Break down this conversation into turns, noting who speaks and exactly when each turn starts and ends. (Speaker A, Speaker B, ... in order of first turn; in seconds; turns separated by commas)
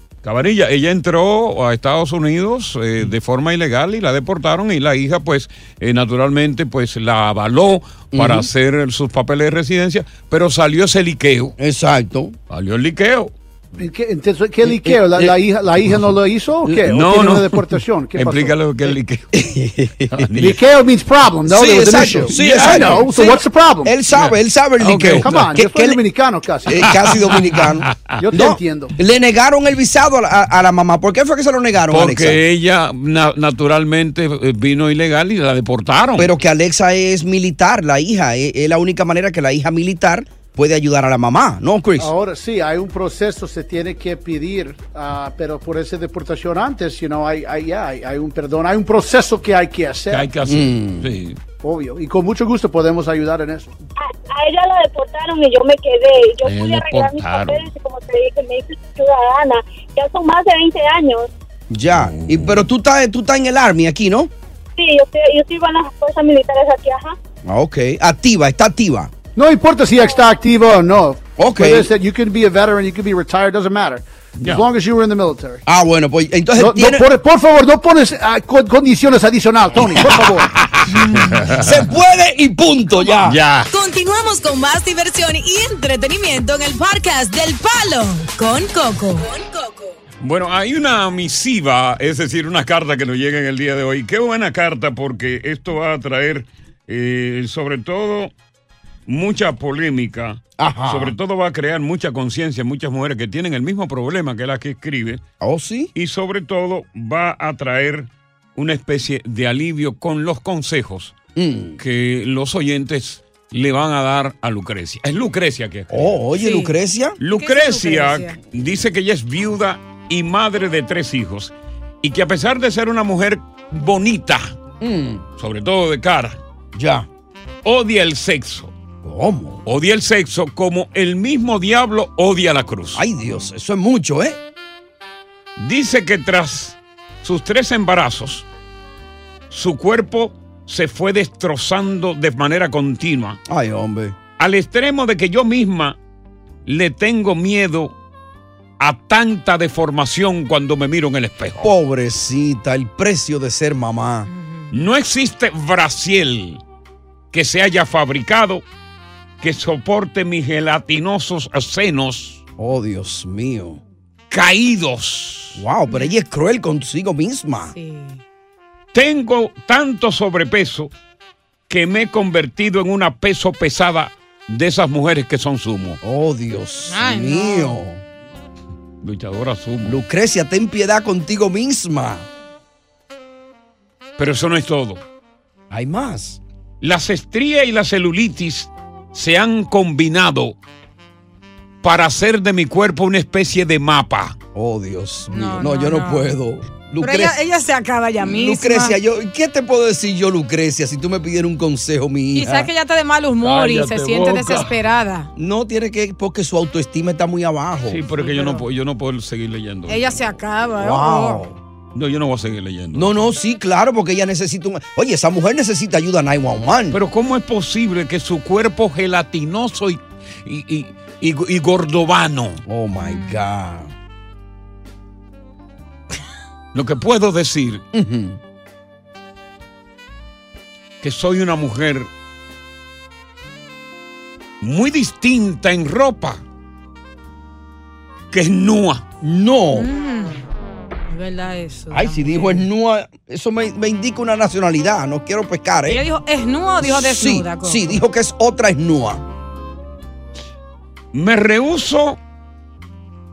Speaker A: 0.2-11.6, Speaker B: 8.1-8.5, Speaker B: 11.6-12.4, Speaker A: 12.5-13.3, Speaker C: 13.8-18.6, Speaker B: 14.6-15.3, Speaker B: 16.6-16.9, Speaker A: 16.9-17.5, Speaker A: 18.1-19.4, Speaker B: 19.3-20.4, Speaker A: 20.1-20.6, Speaker C: 20.4-23.9, Speaker B: 21.5-26.0, Speaker A: 22.3-23.0, Speaker A: 24.1-25.5, Speaker C: 25.2-27.4, Speaker B: 26.7-32.4, Speaker A: 26.9-28.2, Speaker C: 28.2-28.9, Speaker A: 31.9-36.3, Speaker B: 36.2-42.1, Speaker C: 42.0-50.3, Speaker A: 50.1-51.4, Speaker B: 50.5-51.1, Speaker C: 51.6-53.7, Speaker D: 54.0-61.3, Speaker A: 56.4-57.7, Speaker B: 61.7-64.3, Speaker A: 62.0-62.6, Speaker D: 64.8-67.2, Speaker B: 67.5-69.1, Speaker C: 69.4-75.6, Speaker B: 71.4-71.9, Speaker A: 74.4-74.6, Speaker B: 75.7-77.1, Speaker C: 76.6-80.5, Speaker A: 80.6-81.9, Speaker B: 80.9-83.4, Speaker A: 83.2-83.7, Speaker E: 83.7-89.9, Speaker A: 90.2-98.3, Speaker A: 99.1-105.2, Speaker B: 100.6-101.2, Speaker B: 105.4-105.9, Speaker A: 106.0-111.2, Speaker B: 111.3-111.8, Speaker A: 111.8-115.9, Speaker B: 115.9-117.2, Speaker F: 116.3-118.4, Speaker A: 117.2-124.6, Speaker B: 124.8-125.2, Speaker A: 125.4-126.4, Speaker B: 126.7-127.1, Speaker A: 127.7-128.7, Speaker B: 129.0-129.6, Speaker A: 129.7-133.1, Speaker B: 132.9-134.4, Speaker A: 135.6-138.5, Speaker A: 139.5-143.4, Speaker B: 143.5-144.2, Speaker A: 144.4-146.0, Speaker A: 146.7-147.9, Speaker A: 148.8-151.7, Speaker B: 151.6-154.3, Speaker F: 154.3-154.7, Speaker A: 154.7-156.6, Speaker A: 157.3-158.7, Speaker A: 159.4-162.4, Speaker B: 162.6-163.8, Speaker A: 164.3-165.6, Speaker B: 165.6-167.7, Speaker F: 165.9-166.1, Speaker F: 167.7-168.2, Speaker A: 168.9-170.9, Speaker A: 171.7-176.0, Speaker B: 176.0-178.0, Speaker F: 176.9-177.8, Speaker A: 179.0-180.0, Speaker B: 179.8-182.3, Speaker A: 184.2-185.0, Speaker B: 185.7-186.4, Speaker A: 186.8-190.6, Speaker A: 191.8-194.4, Speaker B: 194.5-197.4, Speaker F: 195.3-196.4, Speaker F: 197.0-199.0, Speaker B: 198.2-202.7, Speaker F: 202.3-205.3, Speaker A: 203.4-204.7, Speaker B: 205.4-208.0, Speaker A: 207.9-210.3, Speaker F: 208.1-208.6, Speaker F: 209.9-211.4, Speaker B: 210.8-211.6, Speaker A: 211.9-213.3, Speaker B: 212.9-217.0, Speaker A: 216.9-222.6, Speaker B: 222.7-223.9, Speaker F: 223.1-223.4, Speaker A: 226.7-227.8, Speaker B: 227.9-228.4, Speaker A: 231.0-232.1, Speaker A: 234.6-236.4, Speaker A: 238.3-239.0, Speaker B: 239.2-239.9, Speaker F: 239.7-240.4, Speaker F: 241.1-242.6, Speaker B: 241.9-246.1, Speaker F: 245.9-248.0, Speaker B: 246.8-249.2, Speaker A: 251.1-252.2